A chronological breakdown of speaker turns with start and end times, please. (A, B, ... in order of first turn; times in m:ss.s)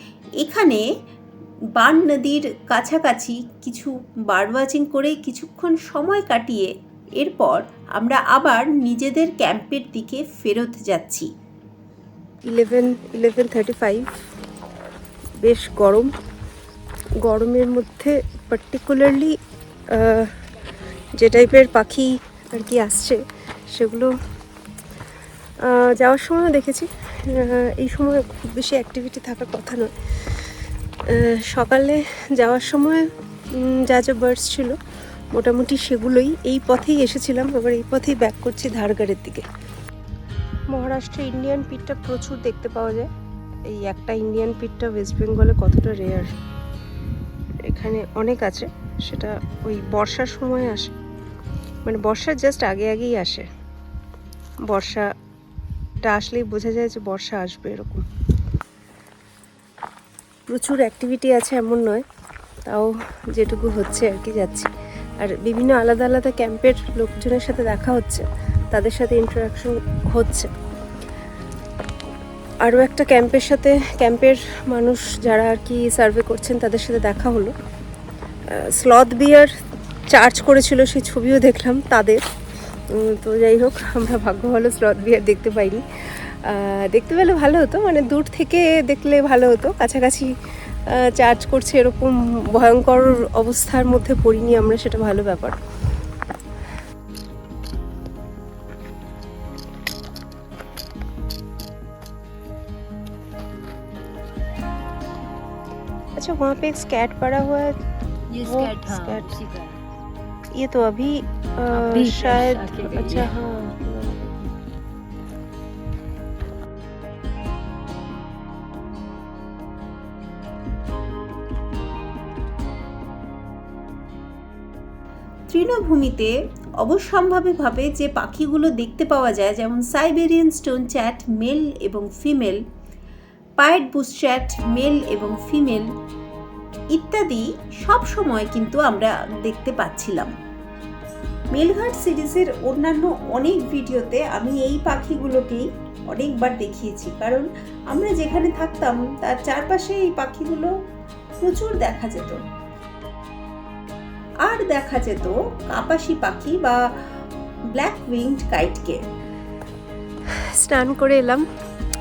0:00.4-0:00.8 A
0:01.8-0:11.3 A
0:12.5-0:14.1 B
0:15.4-0:16.1 B
0:17.2-0:19.4 B
0:19.9-0:20.3 B
0:21.2-0:24.1 B
0:25.6-0:29.9 B
0:31.1-0:34.8 B
0:35.3-0:39.5 B
0:40.7-0:43.1 B
0:43.7-0:46.3 B
0:47.6-0:51.0 B
0:51.8-0:53.5 B
0:54.7-0:55.1 B
0:56.0-0:58.1 B
1:00.5-1:02.0 B
1:02.7-1:10.5 B
1:12.6-1:17.6 B
1:18.5-1:19.5 B
1:20.1-1:22.2 B
1:22.9-1:30.4 B
1:30.9-1:35.6 B
1:46.2-1:47.8 B
1:48.3-1:49.8 C
1:48.4-1:49.3 B
1:50.6-1:54.3 B
1:51.7-1:53.5 C
2:05.5-2:12.6 A
2:13.6-2:15.9 A
2:17.0-2:20.3 A
2:21.5-2:30.7 A
2:31.4-2:32.4 A
2:34.5-2:36.8 A
2:37.8-2:39.0 A
2:40.3-2:41.4 B